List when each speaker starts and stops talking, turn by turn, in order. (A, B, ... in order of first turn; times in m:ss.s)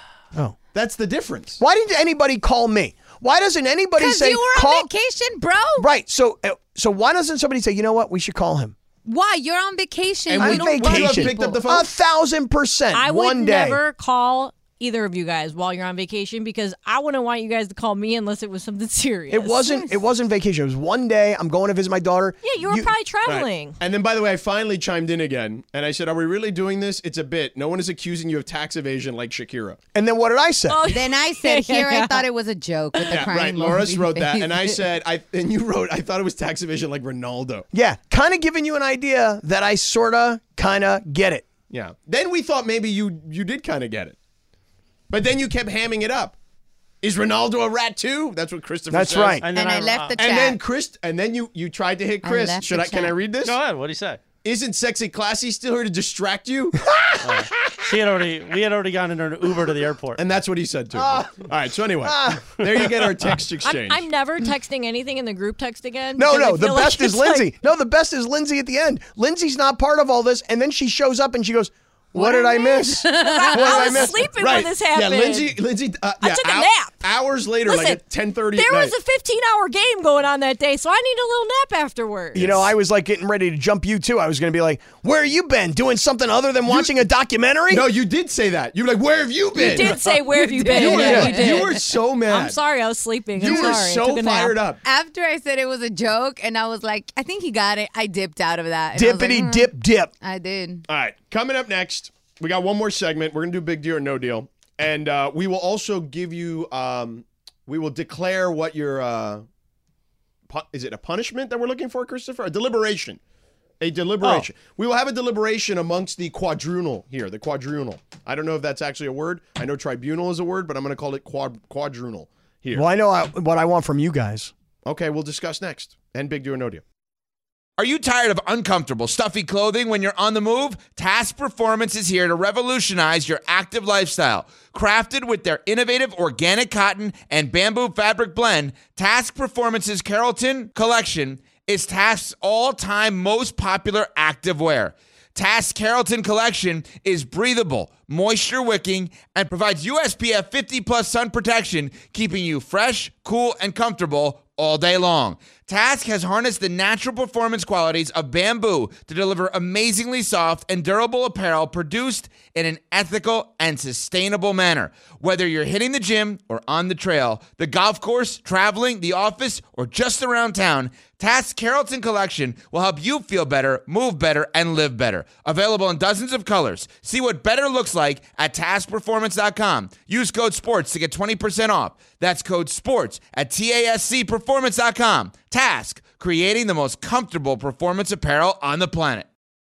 0:00.7-0:01.6 A
0:01.6-0:04.9 B
0:04.0-0:05.9 C
0:05.8-0:08.7 B
0:09.0-0:11.6 C
0:10.3-0:11.9 A
0:10.4-0:13.8 B
0:12.9-0:19.9 D
0:19.3-0:22.9 B
0:22.4-0:23.8 D
0:23.2-0:29.8 A
0:29.9-0:30.8 B
0:30.7-0:32.2 D
0:30.9-0:34.8 C
0:33.1-0:37.7 A
0:37.7-0:41.4 B
0:41.7-0:44.2 A
0:45.1-0:46.4 A
0:47.0-0:49.4 A
0:48.9-0:49.4 B
0:49.4-0:50.2 E
0:49.5-0:50.6 C
0:50.2-0:53.6 A
0:52.2-0:53.1 C
0:53.4-0:54.2 E
0:54.4-0:56.9 A
0:57.2-1:00.2 E
1:00.2-1:04.0 A
1:01.0-1:01.4 B
1:02.0-1:02.6 B
1:03.6-1:07.5 D
1:06.2-1:14.2 B
1:12.1-1:15.6 D
1:13.0-1:14.0 C
1:13.6-1:18.9 A
1:16.2-1:17.0 D
1:17.6-1:18.0 D
1:18.5-1:22.7 D
1:22.3-1:27.9 B
1:26.7-1:26.9 A
1:27.7-1:30.0 A
1:29.6-1:34.6 D
1:29.6-1:31.7 C
1:30.7-1:32.6 A
1:30.9-1:31.4 B
1:33.4-1:34.8 A
1:33.4-1:33.8 C
1:34.8-1:39.7 C
1:38.9-1:40.1 B
1:40.2-1:40.8 C
1:40.9-1:49.4 A
1:50.5-1:53.2 A
1:53.8-2:02.8 A
2:02.7-2:04.5 B
2:04.8-2:06.8 A
2:07.8-3:09.3 F